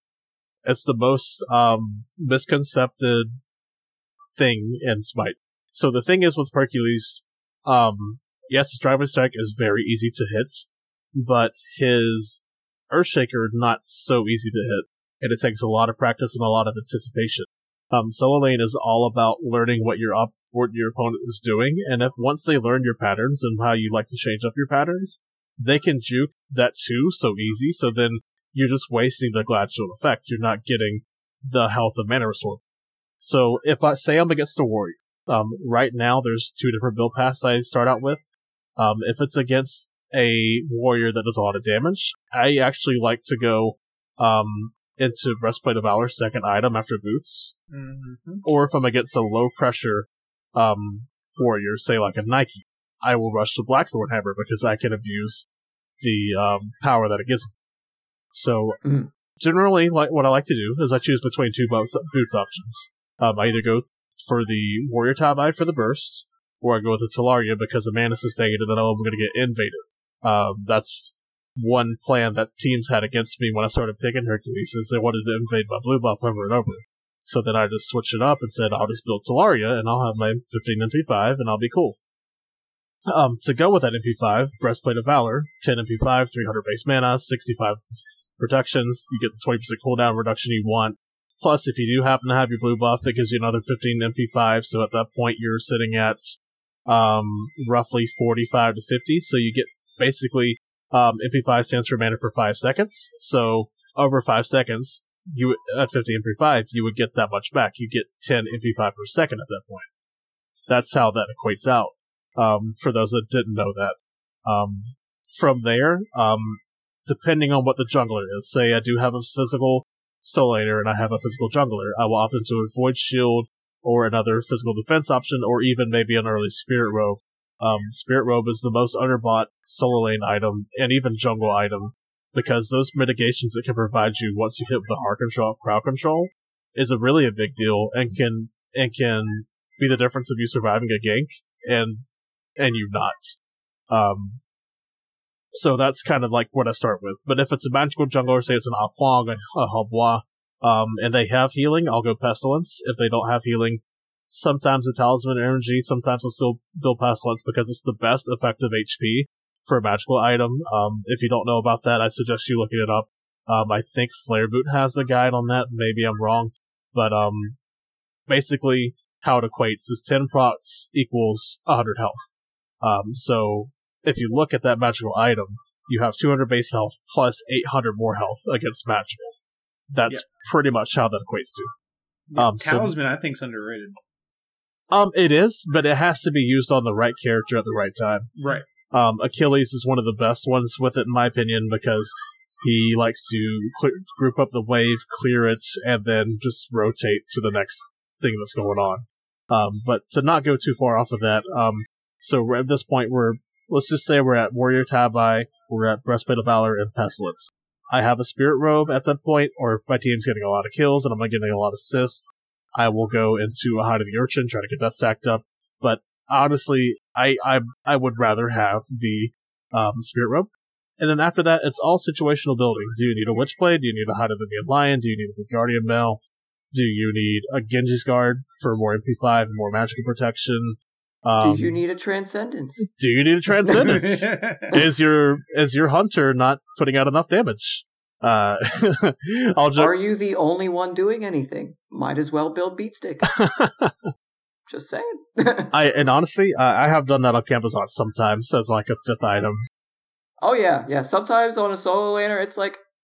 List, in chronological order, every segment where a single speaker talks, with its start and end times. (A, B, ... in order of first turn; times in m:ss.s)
0:00.6-0:03.3 A
0:04.4-0:32.6 A
0:33.2-0:47.5 A
0:47.7-0:48.4 B
0:48.4-0:55.4 A
0:56.0-0:57.5 A
0:58.3-0:58.8 A
0:58.8-0:59.1 C
0:59.4-1:22.0 A
1:23.1-1:27.8 A
1:28.4-1:49.9 A
1:50.7-2:22.0 A
2:22.6-2:23.4 A
2:23.9-2:24.4 A
2:25.5-2:47.6 A
2:48.3-2:59.4 A
2:59.9-3:01.7 A
3:02.3-3:04.0 B
3:02.4-3:02.9 A
3:04.9-3:08.3 A
3:08.4-3:08.7 B
3:08.9-3:46.2 A
3:46.7-3:51.8 A
3:51.4-3:52.8 C
3:52.9-3:59.9 A
3:53.7-3:54.8 B
3:59.8-4:03.4 C
4:03.4-4:04.1 A
4:04.7-4:05.7 C
4:05.7-4:09.6 A
4:10.4-4:12.8 C